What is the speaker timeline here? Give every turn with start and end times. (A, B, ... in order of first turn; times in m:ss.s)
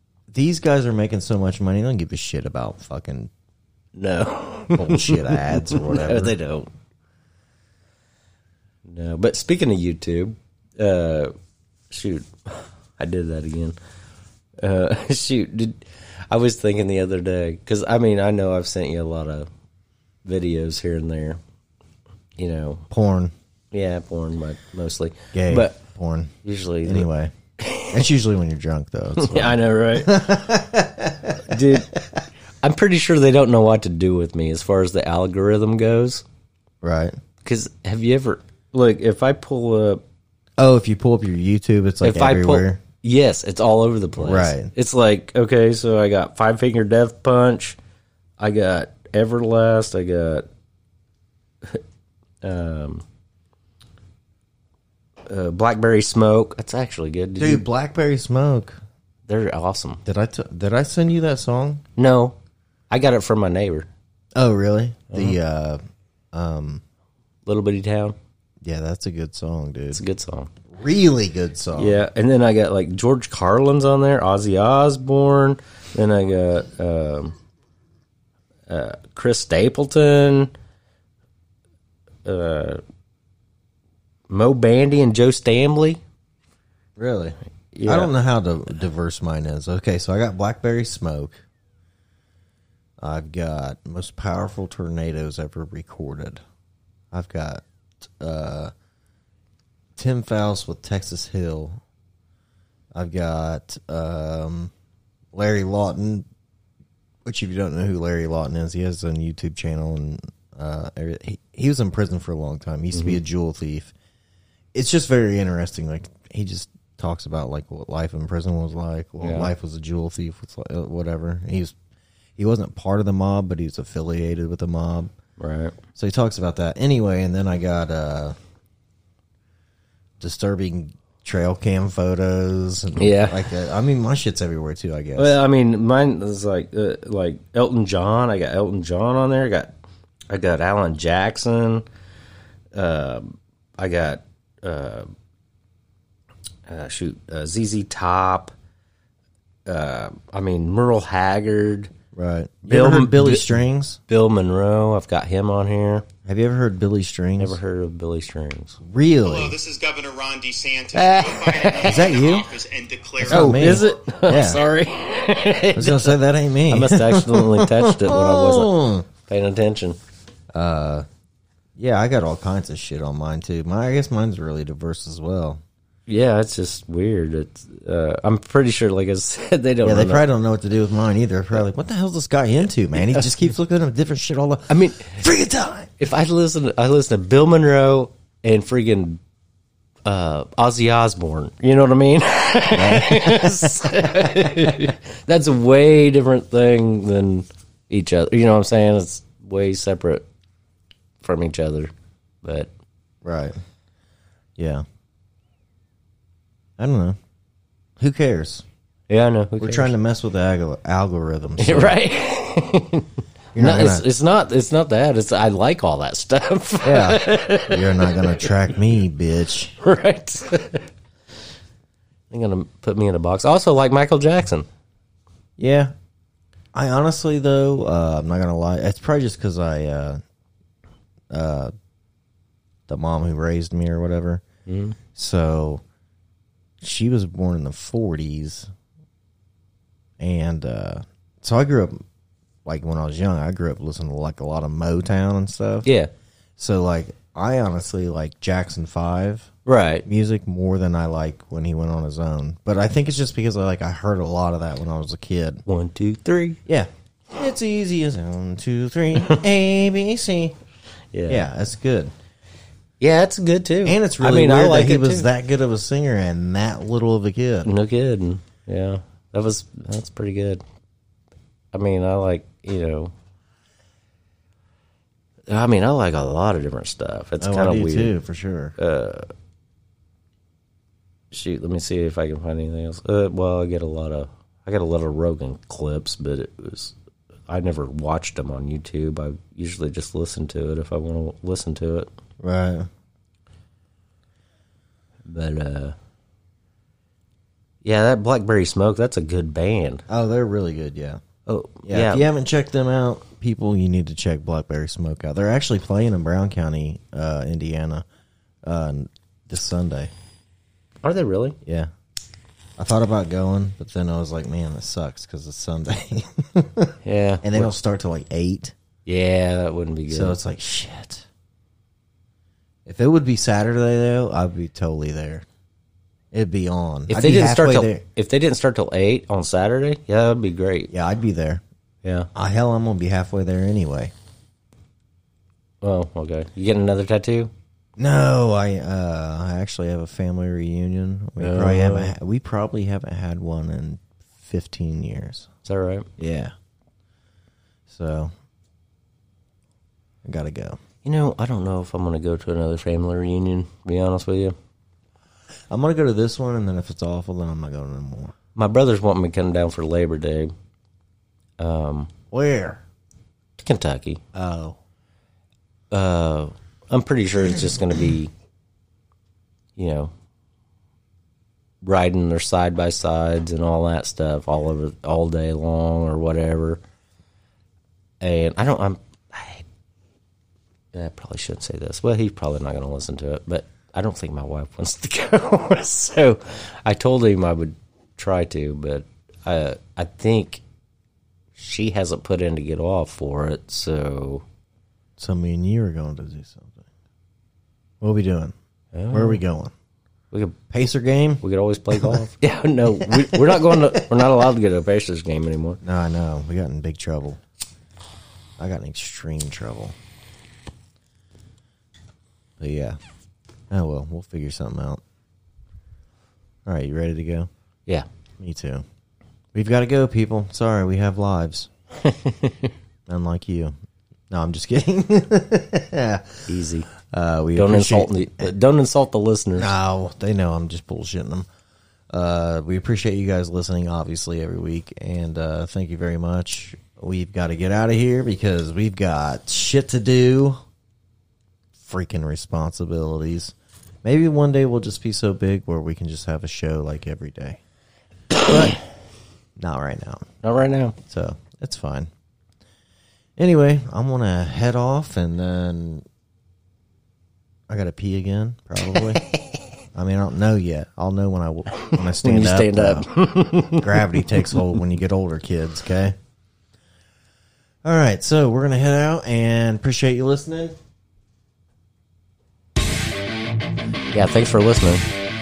0:00.3-0:03.3 A
0:04.0-0:06.7 B
0:04.7-0:06.4 A
0:08.9-0:11.3 B
0:11.9-0:13.8 B
0:14.6-0:19.5 B
0:20.2-0:21.4 B
0:22.4-0:22.9 B
0:22.9-0:23.3 A
0:23.7-0:25.8 B
0:25.3-0:27.3 A
0:26.4-0:27.1 B
0:27.6-0:28.0 B
0:27.9-0:32.0 A
0:29.2-0:30.3 B
0:31.4-0:31.9 B
0:32.6-0:36.2 B
0:36.8-0:37.2 A
0:37.4-0:40.0 B
0:40.6-0:42.8 A
0:42.0-0:47.8 B
0:44.2-0:44.7 A
0:48.4-0:50.5 B
0:52.4-0:53.0 B
0:55.3-0:57.6 B
0:57.4-0:58.8 A
0:59.3-1:00.0 B
1:00.0-1:01.8 A
1:02.0-1:02.4 B
1:02.9-1:03.9 B
1:04.4-1:05.8 A
1:05.1-1:05.4 B
1:06.3-1:06.8 A
1:07.5-1:08.2 B
1:08.6-1:10.0 A
1:09.9-1:10.5 B
1:10.7-1:12.0 A
1:11.8-1:17.4 B
1:18.7-1:20.5 B
1:22.2-1:22.8 B
1:24.3-1:26.0 B
1:27.0-1:31.4 A
1:27.7-1:28.1 B
1:33.0-1:36.4 A
1:37.1-1:38.7 A
1:40.0-1:41.8 A
1:42.9-1:44.7 A
1:45.3-1:46.3 A
1:47.2-1:53.9 A
1:52.9-1:53.2 B
1:54.7-2:01.8 A
1:59.2-1:59.5 B
2:02.4-2:05.1 A
2:05.4-2:05.8 B
2:06.0-2:08.4 A
2:10.2-2:15.4 A
2:13.0-2:13.5 B
2:15.2-2:19.7 B
2:20.3-2:21.8 B
2:22.7-2:25.1 B
2:26.7-2:28.5 B
2:29.7-2:31.9 B
2:32.1-2:34.0 A
2:32.7-2:36.1 B
2:36.2-2:37.6 A
2:37.4-2:38.8 B
2:38.8-2:39.6 A
2:39.2-2:44.5 C
2:40.9-2:42.1 B
2:41.8-2:42.5 A
2:43.2-2:44.6 A
2:43.3-2:50.0 B
2:45.7-2:49.1 A
2:50.5-2:51.1 A
2:51.8-2:55.6 A
2:56.1-3:00.2 B
2:59.8-3:05.9 A
3:03.0-3:03.2 B
3:04.7-3:05.2 B
3:06.0-3:09.2 B
3:10.1-3:20.2 B
3:12.7-3:13.9 A
3:21.2-3:21.9 B
3:22.4-3:22.7 B
3:23.2-3:23.6 A
3:24.6-3:24.8 A
3:26.8-3:27.2 A
3:28.0-3:28.6 A
3:29.1-3:29.9 B
3:29.6-3:32.0 A
3:31.6-3:38.4 B
3:33.6-3:34.1 A
3:36.8-3:39.8 A
3:39.8-3:40.9 B
3:42.3-3:44.7 B
3:45.6-3:45.9 A
3:46.7-3:50.2 A
3:51.3-3:51.7 A
3:52.9-3:54.4 A
3:54.7-3:55.0 B
3:55.2-3:55.8 A
3:56.8-3:58.7 A
4:00.2-4:02.0 A
4:02.6-4:05.9 A
4:05.8-4:06.1 B
4:06.6-4:09.5 A
4:09.7-4:10.1 B
4:10.0-4:15.6 A
4:15.7-4:16.6 B
4:16.7-4:20.6 A
4:21.1-4:21.5 B
4:21.3-4:22.1 A
4:23.0-4:25.3 B
4:23.8-4:27.7 A
4:27.6-4:30.6 B
4:31.7-4:33.1 B
4:35.5-4:38.1 B
4:37.4-4:38.8 A
4:38.8-4:39.3 B
4:41.3-4:47.0 B
4:47.5-4:52.1 B
4:52.4-4:52.9 A
4:55.3-4:56.0 B
4:57.8-5:00.0 B
5:00.1-5:01.2 A
5:01.5-5:02.3 B
5:01.9-5:08.1 A
5:08.6-5:10.1 A
5:11.0-5:11.6 B
5:11.6-5:11.9 A
5:12.8-5:18.7 A
5:17.0-5:17.7 B
5:19.1-5:20.4 B
5:20.1-5:21.3 A
5:22.9-5:25.5 A
5:26.3-5:28.0 A
5:27.1-5:30.9 B
5:30.9-5:31.6 A
5:32.0-5:32.3 B
5:32.3-5:34.1 A
5:35.8-5:37.5 B
5:38.0-5:45.5 A
5:41.4-5:42.1 B
5:45.7-5:46.1 B
5:46.2-5:46.5 A
5:47.9-5:48.3 A
5:50.2-5:50.8 A
5:51.0-5:54.6 B
5:55.7-5:58.4 A
5:58.6-6:00.5 B
6:01.6-6:02.1 B
6:02.3-6:02.8 A
6:03.6-6:04.2 B
6:04.3-6:04.8 A
6:05.9-6:08.3 B
6:09.8-6:10.1 B
6:11.8-6:16.8 B
6:18.2-6:19.6 B
6:20.9-6:30.6 B
6:31.6-6:34.4 B
6:35.2-6:36.8 A
6:38.0-6:38.6 A
6:38.9-6:39.4 B
6:39.1-6:39.7 A
6:40.3-6:40.6 B
6:40.7-6:42.2 A
6:41.4-6:45.8 B
6:42.9-6:44.2 A
6:45.8-6:47.4 A
6:48.6-6:50.0 A
6:52.6-6:53.0 A
6:53.7-6:55.0 A
6:56.7-6:57.5 A
6:58.4-6:58.8 A
6:59.5-7:01.7 A
7:02.2-7:02.7 B
7:03.1-7:03.8 A
7:04.3-7:06.5 A
7:06.5-7:06.9 B
7:07.0-7:08.5 A
7:07.6-7:09.7 B
7:09.6-7:11.5 A
7:12.1-7:20.6 A
7:21.8-7:27.6 A
7:28.4-7:28.8 A
7:29.6-7:30.3 A
7:30.4-7:31.0 B
7:31.0-7:32.1 A
7:33.4-7:36.0 A
7:37.7-7:39.2 A
7:39.9-7:46.2 A
7:41.7-7:44.2 B
7:47.8-7:50.8 A
7:54.1-7:55.1 B